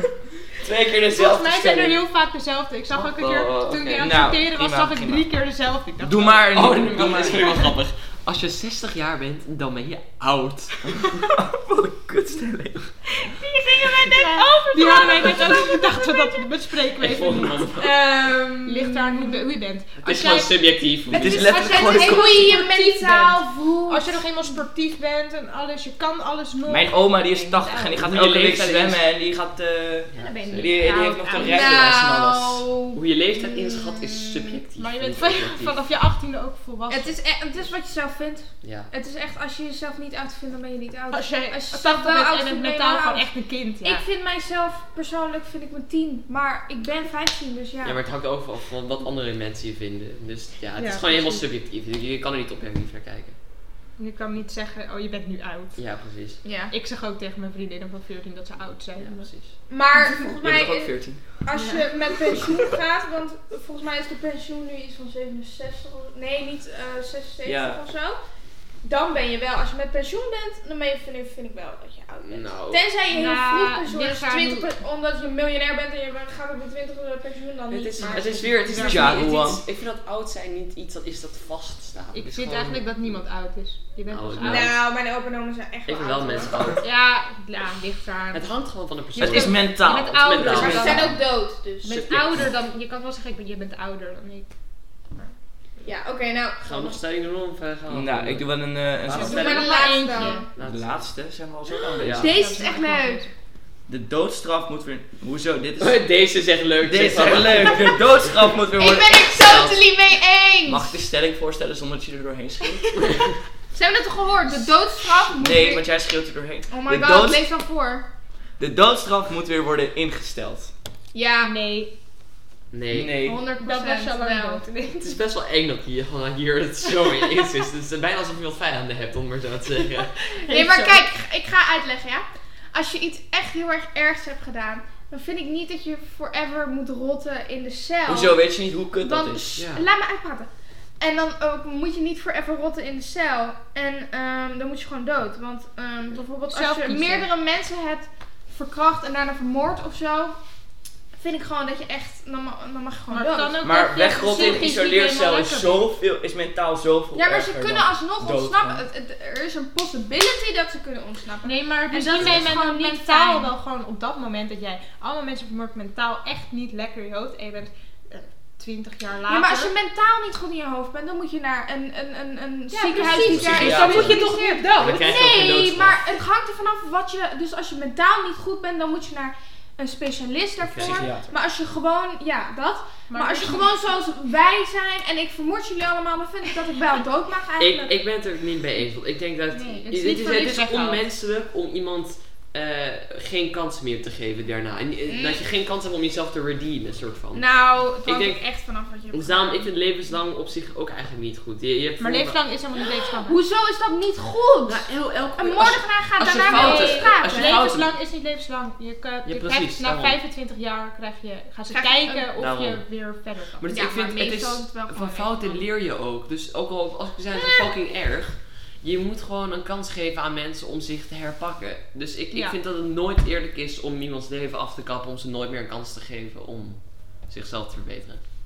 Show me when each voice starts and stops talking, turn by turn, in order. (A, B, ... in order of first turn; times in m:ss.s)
0:00.6-0:02.0 A
0:01.1-0:07.7 B
0:02.9-0:04.2 A
0:04.0-0:05.3 C
0:06.0-0:07.5 C
0:06.5-0:11.1 A
0:10.8-0:12.9 C
0:13.2-0:16.5 D
0:14.1-0:17.7 B
0:17.0-0:17.9 A
0:17.8-0:19.4 D
0:18.6-0:28.2 B
0:20.0-0:21.4 A
0:21.1-0:22.5 C
0:21.2-0:24.2 D
0:26.7-0:32.7 C
0:28.0-0:29.0 A
0:30.1-0:30.9 A
0:30.2-0:31.7 B
0:31.3-0:34.3 D
0:32.9-0:35.8 A
0:34.8-0:37.2 B
0:36.9-0:48.0 D
0:38.6-0:38.9 A
0:41.1-0:44.0 B
0:47.8-0:53.4 A
0:50.8-0:51.5 B
0:54.0-0:55.8 B
0:55.8-0:56.4 A
0:56.4-0:56.7 D
0:56.7-1:00.3 B
0:59.0-0:59.6 A
0:59.7-1:08.2 D
1:00.4-1:01.4 C
1:01.5-1:01.9 B
1:07.4-1:07.8 C
1:08.8-1:18.6 D
1:12.2-1:12.8 A
1:13.1-1:14.7 B
1:17.7-1:23.1 A
1:18.7-1:19.3 B
1:18.7-1:19.6 C
1:22.1-1:24.7 B
1:24.1-1:24.8 A
1:24.4-1:26.8 D
1:25.9-1:26.8 A
1:26.8-1:28.5 B
1:28.3-1:31.2 A
1:29.1-1:31.3 B
1:29.2-1:31.1 C
1:30.4-1:31.9 D
1:31.8-1:34.6 B
1:31.9-1:32.4 A
1:35.1-1:35.4 B
1:35.8-1:37.0 D
1:36.6-1:39.3 A
1:37.9-1:39.7 C
1:39.1-1:40.5 B
1:39.1-1:40.5 D
1:40.1-1:41.1 A
1:40.6-1:42.3 C
1:42.0-1:43.2 D
1:42.2-1:43.3 B
1:43.9-1:46.0 C
1:45.8-1:48.6 A
1:46.8-1:49.6 C
1:48.7-1:51.0 D
1:49.4-1:49.8 A
1:50.7-1:53.0 C
1:53.1-1:53.4 A
1:53.7-1:55.9 D
1:55.4-1:57.4 C
1:56.7-1:58.0 D
1:58.6-2:00.7 C
2:01.1-2:01.5 D
2:01.4-2:01.9 B
2:02.7-2:03.2 A
2:02.9-2:03.4 C
2:03.2-2:04.6 D
2:03.6-2:05.2 B
2:05.0-2:10.1 A
2:10.3-2:20.5 D
2:10.4-2:11.1 B
2:18.1-2:19.5 C
2:19.6-2:19.8 A
2:21.0-2:30.4 D
2:26.5-2:27.3 B
2:31.1-2:33.6 D
2:33.1-2:35.8 B
2:33.6-2:38.8 C
2:37.1-2:43.5 D
2:41.4-2:49.7 B
2:42.2-2:42.5 A
2:49.3-3:08.0 D
2:52.7-2:55.0 B
2:53.0-2:56.0 C
2:53.2-2:54.2 A
2:55.7-2:56.0 A
3:00.6-3:01.0 A
3:00.8-3:01.3 C
3:03.1-3:03.7 B
3:07.6-3:18.4 A
3:09.5-3:11.0 B
3:15.1-3:15.4 D
3:17.3-3:19.6 D
3:19.1-3:22.5 A
3:22.0-3:23.4 B
3:23.2-3:24.8 D
3:24.7-3:27.9 A
3:25.4-3:27.6 D
3:26.4-3:33.9 B
3:29.2-3:30.2 A
3:31.7-3:32.3 D
3:32.4-3:48.2 A
3:33.7-3:35.7 D
3:37.3-3:37.7 D